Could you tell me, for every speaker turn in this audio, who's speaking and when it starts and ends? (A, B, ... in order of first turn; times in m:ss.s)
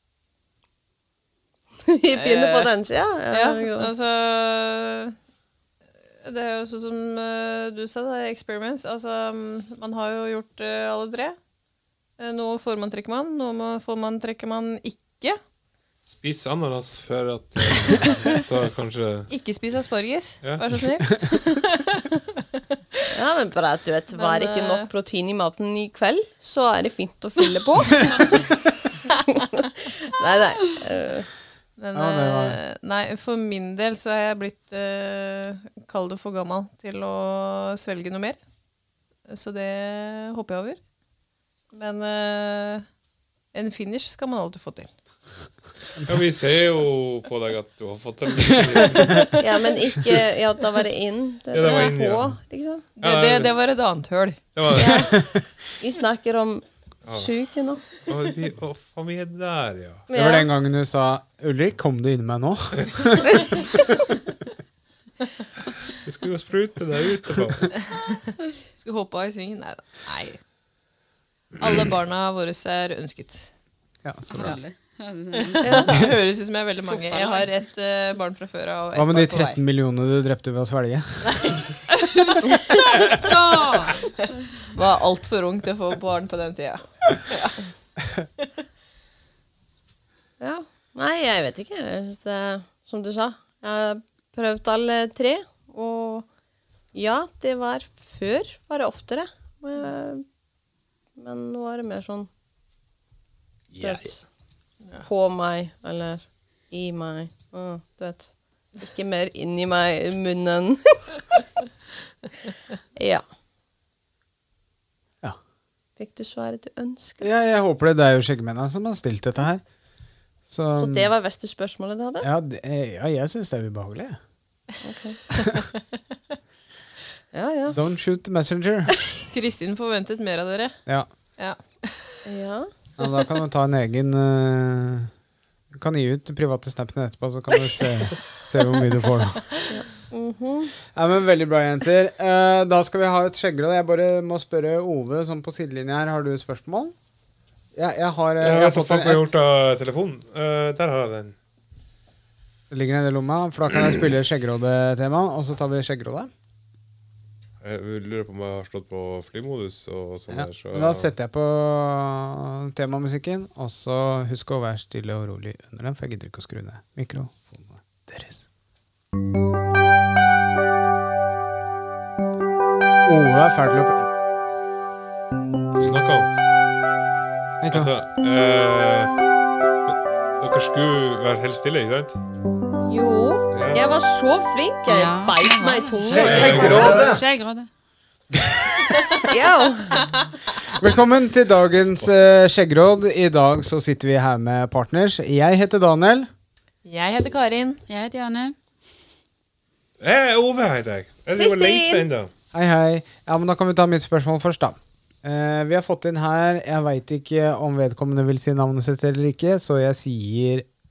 0:01.9-0:03.9 A
0:02.1-0:02.7 B
0:03.3-0:05.2 B
0:06.2-0:11.4 B
0:12.2-0:15.4 B
0:16.1-0:19.3 C
0:19.3-0:22.4 B
0:20.4-0:20.7 C
0:23.1-0:28.4 A
0:24.1-0:24.9 B
0:29.3-0:31.3 A
0:31.8-0:38.4 B
0:31.9-0:32.6 D
0:39.3-0:40.8 B
0:41.7-0:42.8 B
0:43.5-0:44.9 B
0:46.0-0:49.4 C
0:48.8-0:49.3 D
0:49.4-0:52.9 A
0:51.5-0:52.3 C
0:53.0-0:54.4 B
0:53.0-0:53.6 C
0:54.6-0:55.2 C
0:54.7-0:55.2 A
0:55.8-0:57.8 A
0:58.1-1:00.1 C
1:00.1-1:00.5 A
1:00.1-1:03.6 D
1:06.0-1:07.8 C
1:07.8-1:10.4 B
1:11.6-1:13.5 B
1:14.0-1:14.6 D
1:14.3-1:16.0 E
1:15.4-1:19.6 B
1:15.6-1:15.9 A
1:16.9-1:17.5 E
1:19.0-1:21.6 D
1:21.2-1:21.7 B
1:22.0-1:24.1 E
1:22.4-1:23.4 B
1:23.9-1:27.6 B
1:30.4-1:36.3 A
1:36.9-1:40.2 A
1:41.2-1:42.3 A
1:43.7-1:44.1 C
1:43.8-1:44.3 A
1:45.0-1:51.2 A
1:53.0-1:53.2 A
1:56.0-1:57.3 A
1:57.2-1:59.6 D
2:00.5-2:01.1 D
2:00.8-2:02.3 A
2:02.2-2:04.2 D
2:04.8-2:05.2 A
2:07.3-2:07.8 A
2:07.7-2:08.9 D
2:09.3-2:10.8 B
2:11.4-2:12.2 B
2:12.2-2:12.7 A
2:13.0-2:15.1 D
2:15.7-2:19.4 D
2:19.7-2:20.8 A
2:20.9-2:26.9 D
2:27.7-2:29.3 D
2:28.4-2:31.4 C
2:32.7-2:36.3 D
2:37.6-2:41.1 C
2:40.3-2:48.4 D
2:53.0-2:54.1 D
2:55.8-2:56.3 C
2:57.6-2:57.9 D
2:57.7-2:59.2 C
2:59.9-3:02.2 C
3:02.9-3:07.1 A
3:03.5-3:03.8 C
3:04.9-3:07.7 E
3:06.1-3:07.1 D
3:06.2-3:07.2 C
3:09.2-3:10.0 A
3:10.8-3:16.3 D
3:16.8-3:17.8 B
3:17.9-3:18.6 E
3:20.0-3:22.3 C
3:21.4-3:22.1 A
3:22.5-3:30.7 D